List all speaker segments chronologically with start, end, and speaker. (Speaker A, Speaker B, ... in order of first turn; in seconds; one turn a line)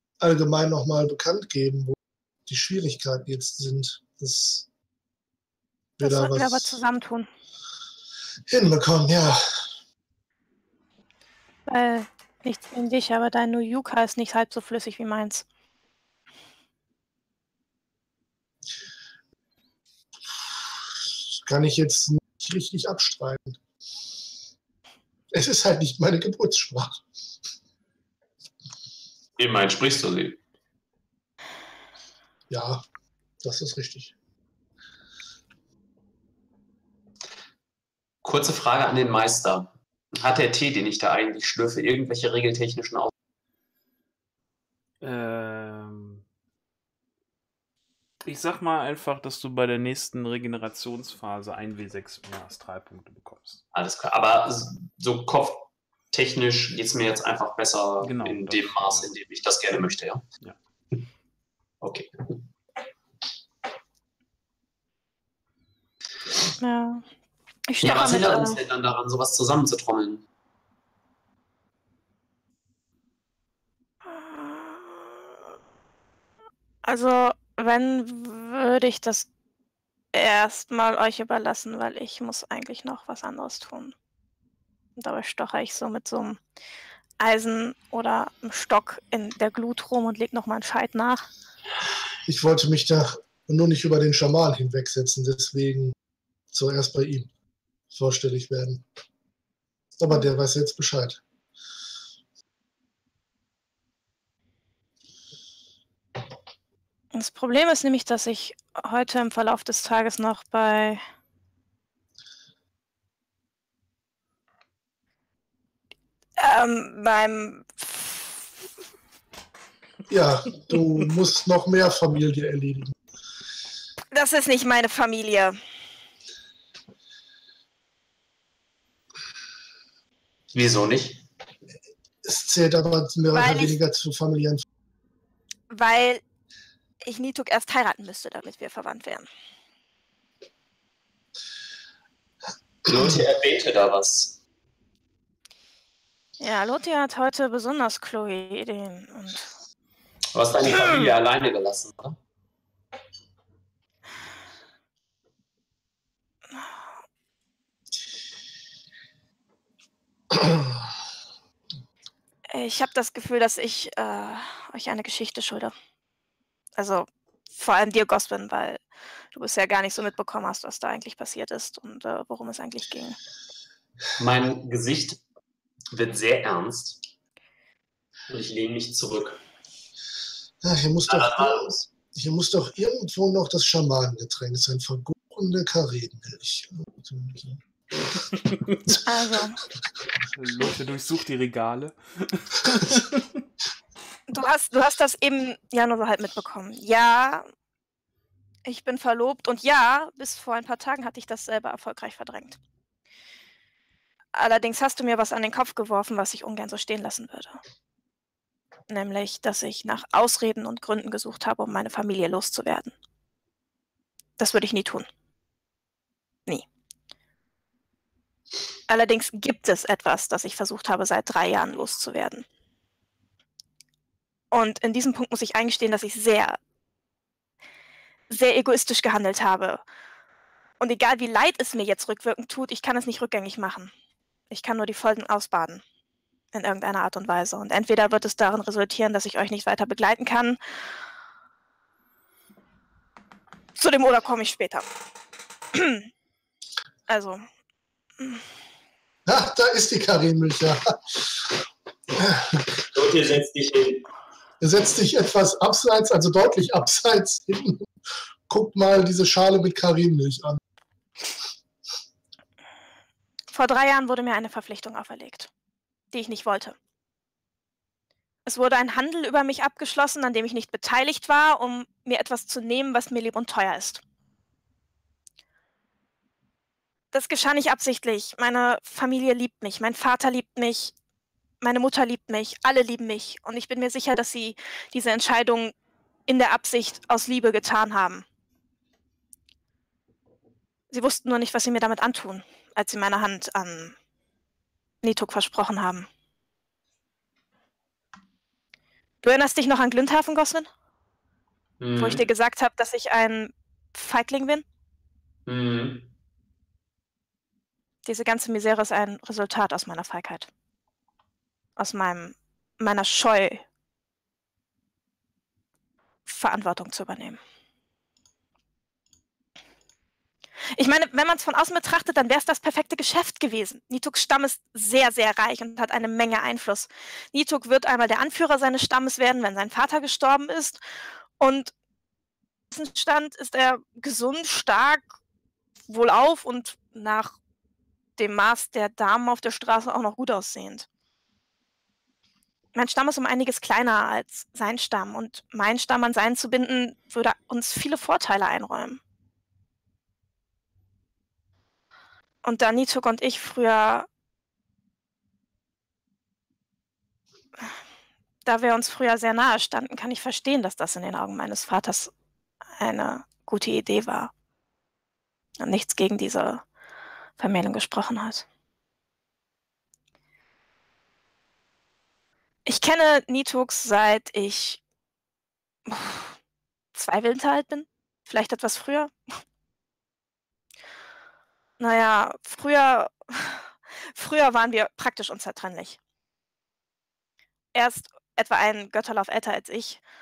Speaker A: 0.2-4.7
Speaker A: 6.0-6.8
Speaker B: 6.0-7.3
Speaker A: 8.5-9.4
Speaker B: 11.7-15.4
Speaker A: 21.4-23.6
Speaker A: 25.3-27.0
Speaker C: 29.4-30.4
Speaker A: 32.5-32.8
Speaker A: 33.4-34.1
Speaker C: 38.2-43.1
Speaker D: 45.0-46.2
Speaker D: 48.2-53.6
Speaker C: 53.7-60.2
Speaker D: 58.0-59.1
Speaker C: 61.8-62.4
Speaker B: 66.6-67.0
Speaker B: 67.7-68.6
Speaker C: 67.8-70.2
Speaker B: 74.0-75.2
Speaker B: 76.8-79.3
Speaker B: 80.1-83.9
Speaker B: 85.0-86.4
Speaker B: 87.2-91.2
Speaker A: 92.2-95.9
Speaker A: 96.5-97.3
Speaker A: 97.9-98.8
Speaker A: 100.0-101.2
Speaker B: 107.1-111.0
Speaker B: 116.4-118.3
Speaker A: 120.1-123.0
Speaker B: 124.1-125.6
Speaker C: 130.5-131.2
Speaker A: 132.2-134.6
Speaker B: 133.3-133.8
Speaker B: 135.7-136.2
Speaker B: 137.0-139.3
Speaker C: 142.8-144.4
Speaker B: 146.4-149.5
Speaker C: 150.3-152.2
Speaker B: 150.7-151.1
Speaker A: 160.3-160.7
Speaker B: 162.5-165.7
Speaker B: 166.8-168.8
Speaker B: 169.3-173.2
Speaker C: 174.2-175.2
Speaker C: 175.9-177.0
Speaker C: 178.3-179.4
Speaker A: 180.6-187.6
Speaker C: 181.1-181.7
Speaker B: 189.0-189.6
Speaker D: 190.3-193.4
Speaker B: 194.3-197.5
Speaker B: 198.7-202.6
Speaker B: 204.3-207.6
Speaker B: 208.9-212.9
Speaker B: 214.4-215.1
Speaker B: 218.9-222.4
Speaker B: 224.5-226.6
Speaker B: 228.3-229.8
Speaker B: 230.8-233.9
Speaker B: 234.5-235.8
Speaker B: 236.5-240.6
Speaker B: 243.8-244.9
Speaker B: 245.7-246.1
Speaker B: 247.1-247.4
Speaker A: 249.2-251.5
Speaker A: 252.2-252.7
Speaker C: 252.9-254.1
Speaker A: 254.6-257.9
Speaker A: 258.5-260.6
Speaker B: 263.5-265.5
Speaker B: 266.1-266.8
Speaker B: 268.4-274.0
Speaker B: 277.1-280.9
Speaker B: 281.6-285.7
Speaker B: 286.3-288.2
Speaker B: 290.9-293.9
Speaker B: 295.0-296.1
Speaker B: 299.2-300.7
Speaker C: 301.8-302.2
Speaker B: 302.0-304.6
Speaker C: 305.4-306.1
Speaker B: 308.0-310.5
Speaker B: 311.8-313.6
Speaker B: 316.2-317.4
Speaker B: 320.8-330.8
Speaker B: 331.4-331.7
Speaker B: 332.7-335.1
Speaker B: 335.9-337.4
Speaker B: 338.2-340.9
Speaker B: 342.7-349.0
Speaker B: 352.4-354.1
Speaker B: 358.4-362.1
Speaker B: 362.8-364.3
Speaker B: 365.6-366.6
Speaker B: 367.4-368.4
Speaker B: 372.6-374.8
Speaker B: 375.9-376.3
Speaker B: 376.9-379.1
Speaker B: 381.8-386.0
Speaker B: 387.7-390.0